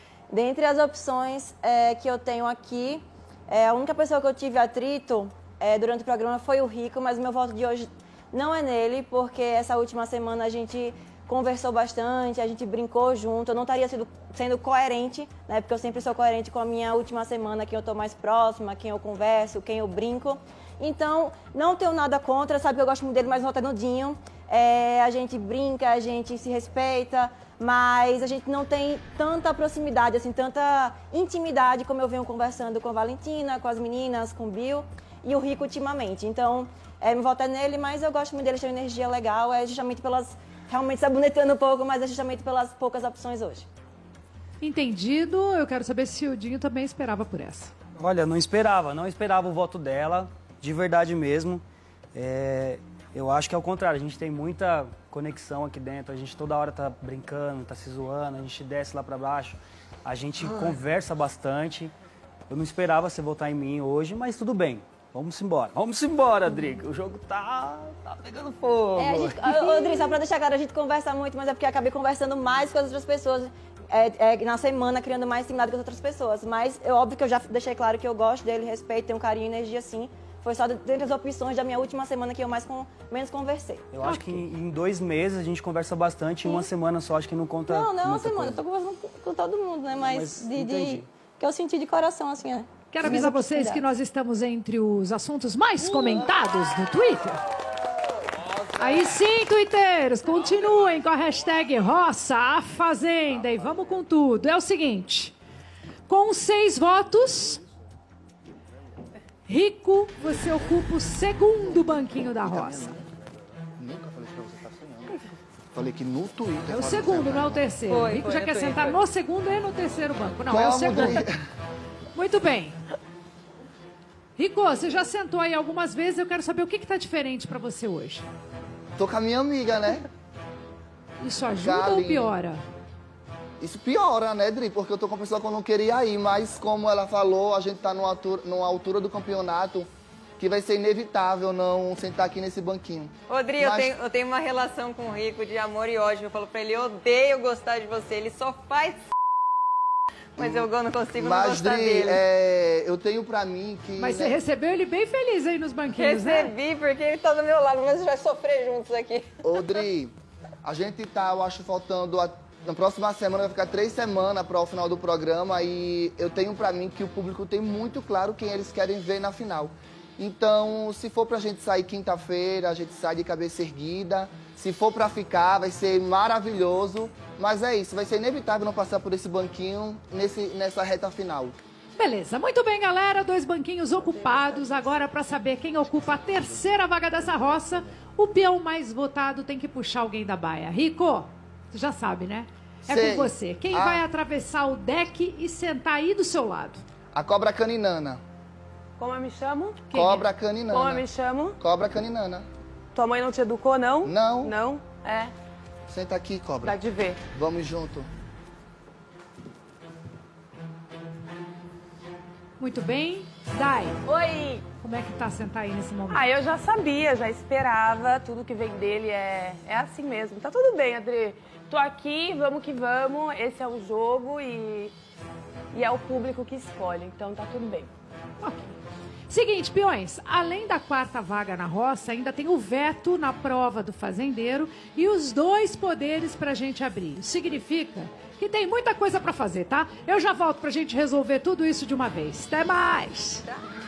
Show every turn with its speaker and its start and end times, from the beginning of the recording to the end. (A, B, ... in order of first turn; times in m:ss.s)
0:00.3-0:43.7 A
0:44.6-0:47.7 B
0:48.0-0:51.6 C
0:52.2-1:01.9 C
1:02.5-1:10.0 C
1:09.0-1:23.9 A
1:23.9-1:28.6 C
1:24.0-1:24.4 B
1:26.4-1:26.7 A
1:27.7-1:33.8 A
1:30.0-1:31.1 C
1:32.9-1:37.4 B
1:38.8-1:45.4 B
1:46.1-1:47.6 B
1:49.5-1:53.0 B
1:51.7-1:53.0 D
1:53.8-1:57.7 D
1:56.7-2:01.2 B
1:57.9-1:59.0 E
2:00.5-2:01.4 D
2:02.2-2:02.8 B
2:04.4-2:08.3 B
2:09.0-2:10.1 D
2:11.2-2:12.6 B
2:11.5-2:12.4 D
2:13.6-2:19.9 D
2:20.4-2:24.0 D
2:23.3-2:29.0 E
2:30.4-2:32.2 E
2:30.4-2:34.4 D
2:34.0-2:36.5 B
2:36.0-2:39.6 E
2:39.4-3:01.6 D
3:02.0-3:16.8 B
3:12.9-3:14.0 D
3:17.1-3:18.2 D
3:19.0-3:21.6 F
3:19.9-3:21.1 D
3:21.6-3:22.5 D
3:23.0-3:25.3 F
3:24.0-3:24.5 D
3:25.9-3:26.8 D
3:26.6-3:27.2 F
3:27.3-3:28.1 D
3:32.6-3:34.0 B
3:34.0-3:34.7 F
3:34.8-3:36.3 B
3:36.1-3:44.9 F
3:45.7-3:47.9 F
3:48.4-3:48.7 B
3:49.3-4:03.5 B